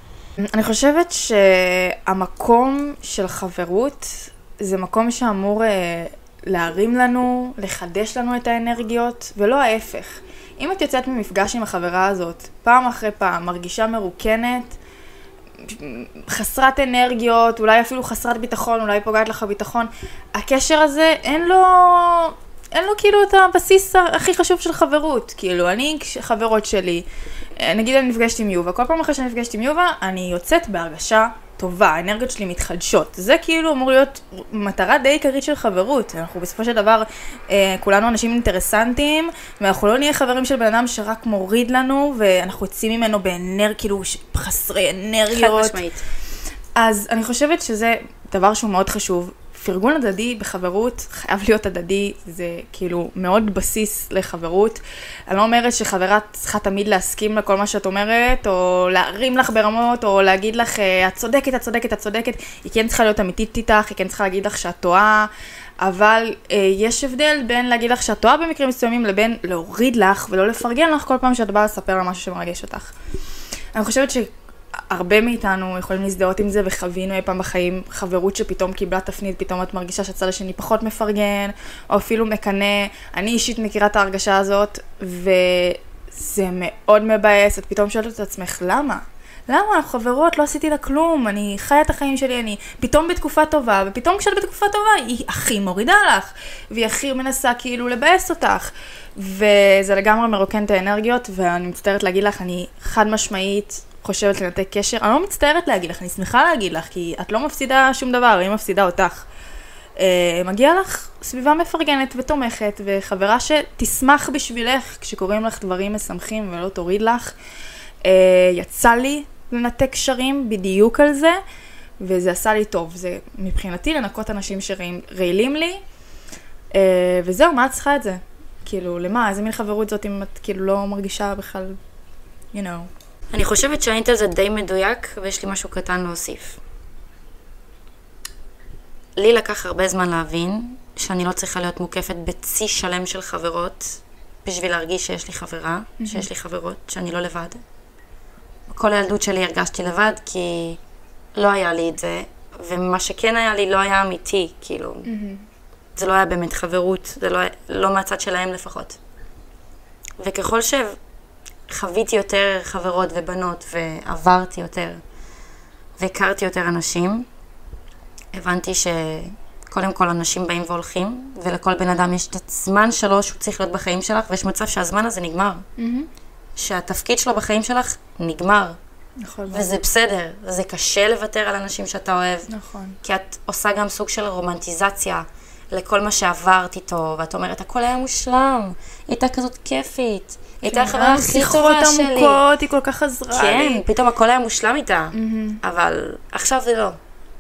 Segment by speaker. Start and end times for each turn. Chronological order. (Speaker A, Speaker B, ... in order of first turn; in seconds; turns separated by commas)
Speaker A: 0.4-14.8, Speaker A: 15.7-27.1, Speaker A: 27.6-45.8, Speaker B: 45.3-46.0, Speaker A: 46.8-65.3, Speaker A: 65.8-72.9, Speaker A: 73.8-74.3, Speaker A: 74.9-109.3, Speaker A: 110.0-117.3, Speaker A: 118.0-121.4, Speaker A: 122.0-125.8, Speaker A: 126.7-131.8, Speaker A: 132.5-132.9, Speaker B: 133.3-136.6, Speaker B: 139.2-147.6, Speaker A: 146.0-146.3, Speaker B: 148.7-150.8, Speaker B: 151.3-155.1, Speaker A: 155.1-155.4, Speaker B: 156.0-159.0, Speaker B: 160.2-161.0, Speaker B: 161.7-165.0, Speaker B: 166.0-167.3, Speaker B: 168.3-175.7, Speaker A: 175.8-176.1, Speaker B: 176.6-178.8, Speaker A: 179.2-179.7, Speaker B: 179.5-182.5, Speaker A: 182.5-183.0, Speaker B: 183.0-192.4, Speaker A: 190.7-193.8, Speaker B: 193.3-197.0, Speaker A: 195.1-195.6